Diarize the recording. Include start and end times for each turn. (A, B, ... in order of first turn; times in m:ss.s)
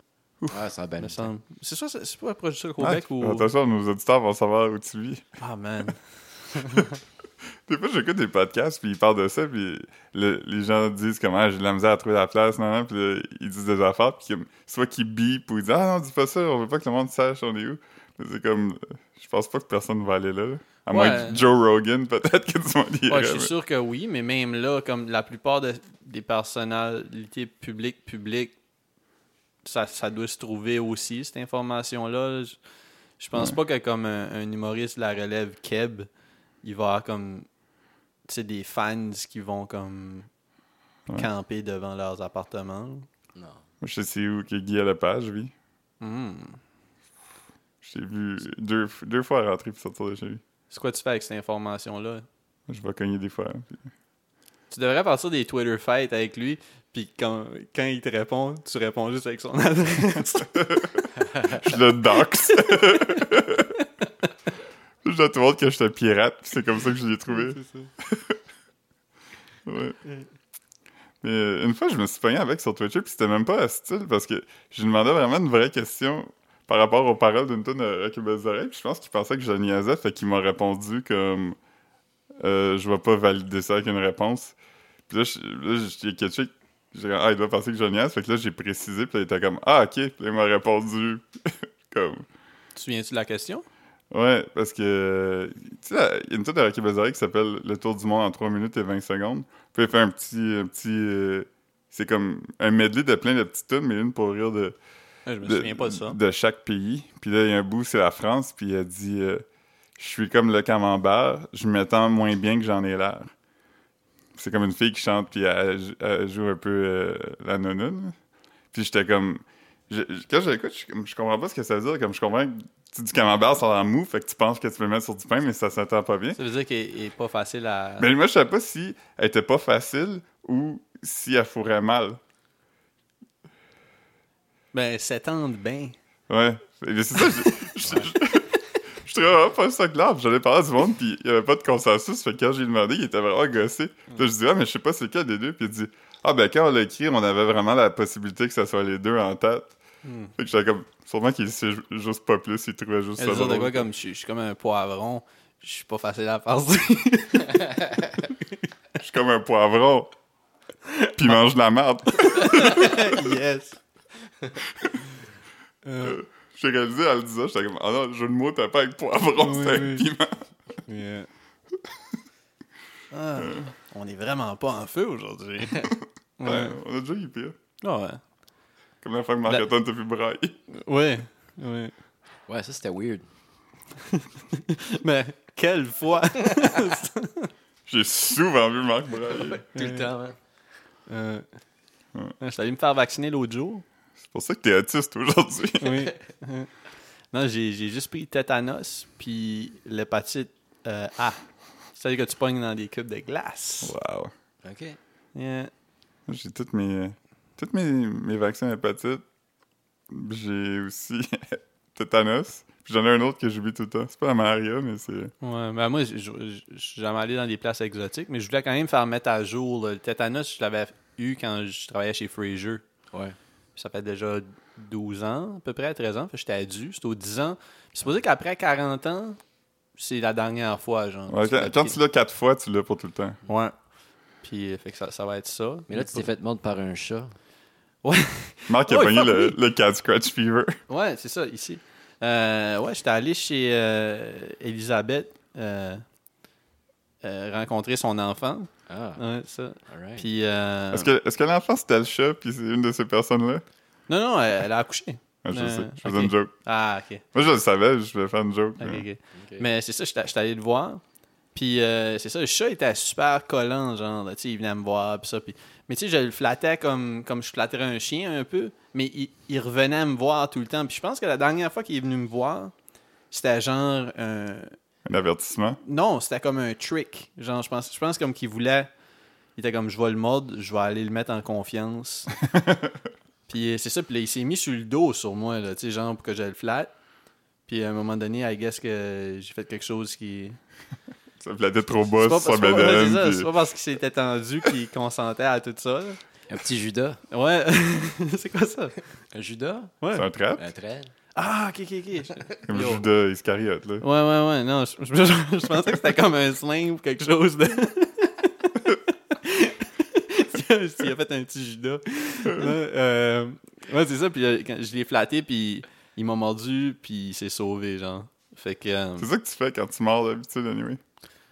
0:00.5-0:01.3 A
0:01.0-0:03.5 B
0:02.8-0:05.2 C
0:05.4-0:07.0 B
0:07.7-0:23.5 C
0:20.9-0:21.4 B
0:23.1-0:28.5 B
0:29.6-0:32.6 B
0:33.2-0:36.1 B
0:36.6-0:37.5 B
0:38.3-0:40.3 B
0:41.1-0:43.1 B
0:43.3-0:43.6 A
0:43.8-0:45.5 C
0:46.0-0:46.6 B
0:47.8-0:50.4 C
0:50.7-0:52.2 B
0:52.7-0:53.9 C
0:54.7-1:00.5 B
1:00.3-1:03.7 C
1:05.0-1:08.4 C
1:07.3-1:07.9 B
1:09.6-1:10.0 C
1:11.2-1:21.6 C
1:22.4-1:24.6 C
1:25.1-1:32.2 C
1:32.7-1:33.6 B
1:34.1-1:44.7 C
1:45.2-1:46.2 B
1:45.4-1:49.4 C
1:50.0-1:53.3 C
1:54.3-1:58.2 C
1:58.7-2:06.4 C
2:06.4-2:08.1 B
2:08.0-2:12.2 C
2:14.7-2:16.0 B
2:16.3-2:29.8 C
2:30.0-2:30.3 B
2:30.4-2:33.9 C
2:33.2-2:38.3 B
2:39.0-2:40.1 C
2:41.1-2:43.3 C
2:42.1-2:43.8 B
2:45.8-2:46.2 B
2:46.0-2:50.5 C
2:49.4-2:50.1 B
2:50.8-2:51.3 B
2:53.1-2:56.8 B
2:56.4-2:57.5 C
2:57.8-2:58.2 B
2:59.0-3:00.6 C
3:00.7-3:01.9 B
3:02.5-3:03.3 A
3:04.1-3:07.5 B
3:07.9-3:09.6 C
3:09.3-3:10.4 A
3:09.7-3:10.1 B
3:11.1-3:11.4 B
3:12.4-3:13.8 B
3:14.2-3:16.1 C
3:15.8-3:16.7 B
3:17.3-3:21.4 B
3:21.9-3:23.9 B
3:23.8-3:24.3 C
3:24.6-3:25.0 A
3:25.3-3:25.7 B
3:26.3-3:29.2 C
3:30.1-3:35.3 C
3:35.4-3:42.8 B
3:43.8-3:49.4 B
3:50.0-3:52.0 B
3:51.3-3:53.4 C
3:53.4-3:53.7 B
3:54.4-3:56.3 B
3:55.9-3:57.3 A
3:58.0-3:59.6 B
3:58.7-4:00.8 C
4:00.9-4:06.0 B
4:07.2-4:11.1 B
4:08.9-4:09.2 A
4:09.9-4:10.2 A
4:10.9-4:13.6 C
4:14.1-4:17.3 B
4:15.4-4:16.5 C
4:17.3-4:19.0 C
4:18.8-4:21.0 B
4:19.3-4:19.7 A
4:21.5-4:32.7 B
4:33.3-4:34.8 B
4:35.0-4:35.8 C
4:35.8-4:38.9 B
4:39.6-4:42.3 B
4:42.5-4:42.9 C
4:43.5-4:46.9 B
4:47.7-4:50.6 B
4:51.4-4:53.5 C
4:52.2-4:56.2 B
4:56.5-4:57.2 A
4:57.3-4:59.0 B
4:59.3-5:00.0 A
5:00.1-5:00.6 C
5:00.6-5:01.1 A
5:01.3-5:03.0 B
5:02.6-5:04.0 C
5:04.0-5:19.3 B
5:12.4-5:12.7 C
5:19.2-5:21.0 C